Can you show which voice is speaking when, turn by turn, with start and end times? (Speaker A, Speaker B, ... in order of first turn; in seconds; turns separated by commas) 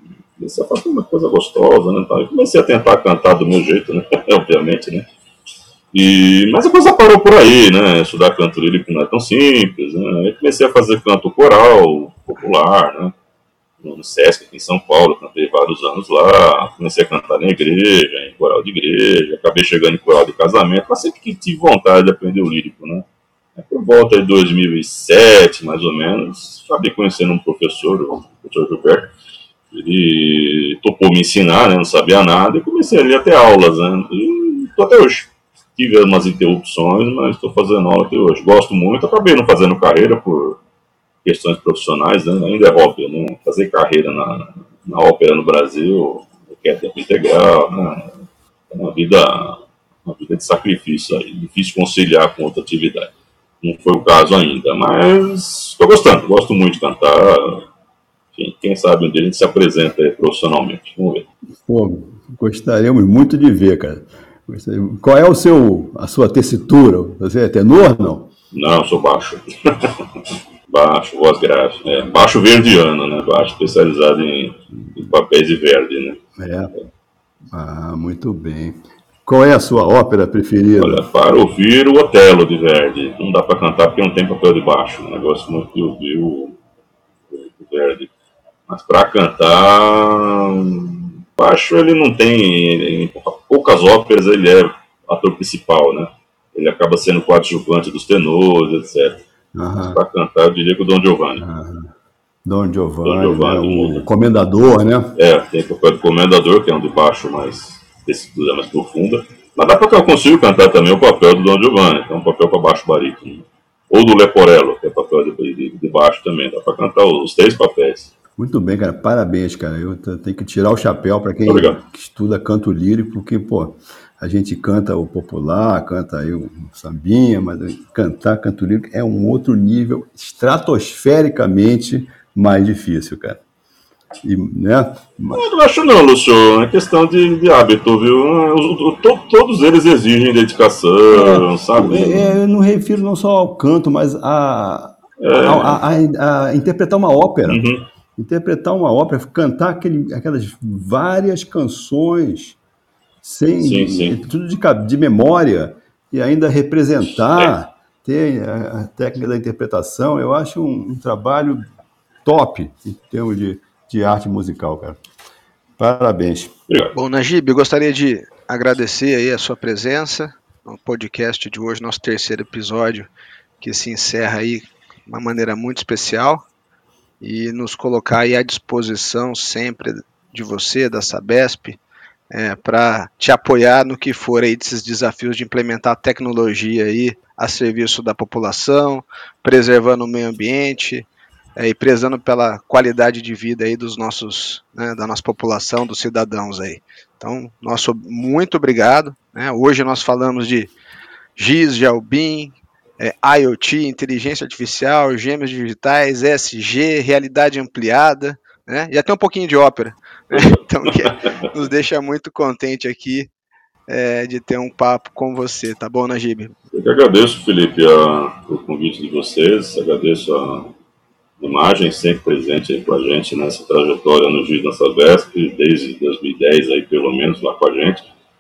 Speaker A: 0.4-5.1, Speaker A: 5.9-13.2, Speaker A: 13.8-29.1, Speaker A: 29.7-40.6, Speaker A: 41.2-48.1, Speaker A: 48.7-57.6, Speaker A: 58.3-61.3, Speaker B: 61.6-68.3, Speaker A: 68.5-76.2, Speaker B: 76.4-76.7, Speaker B: 77.5-81.0, Speaker A: 80.8-86.6, Speaker A: 87.3-88.1, Speaker A: 88.7-99.2, Speaker B: 99.5-100.0, Speaker A: 99.8-101.4, Speaker B: 101.4-101.9, Speaker B: 102.5-105.2, Speaker A: 103.0-104.0, Speaker A: 105.2-118.1, Speaker B: 118.4-133.4, Speaker A: 121.5-121.8, Speaker B: 134.2-135.4, Speaker A: 135.3-142.4, Speaker B: 141.1-147.6, Speaker A: 145.2-145.8, Speaker A: 147.5-147.8, Speaker B: 148.2-152.6, Speaker B: 153.2-161.6, Speaker A: 153.6-154.2, Speaker B: 162.2-165.0, Speaker B: 165.8-166.5, Speaker A: 166.7-166.9, Speaker C: 166.9-173.1, Speaker C: 173.6-176.4, Speaker C: 177.2-181.8, Speaker C: 182.3-200.7, Speaker C: 201.4-213.3, Speaker A: 210.3-211.3, Speaker C: 213.9-216.5, Speaker A: 216.7-220.7, Speaker A: 221.4-228.0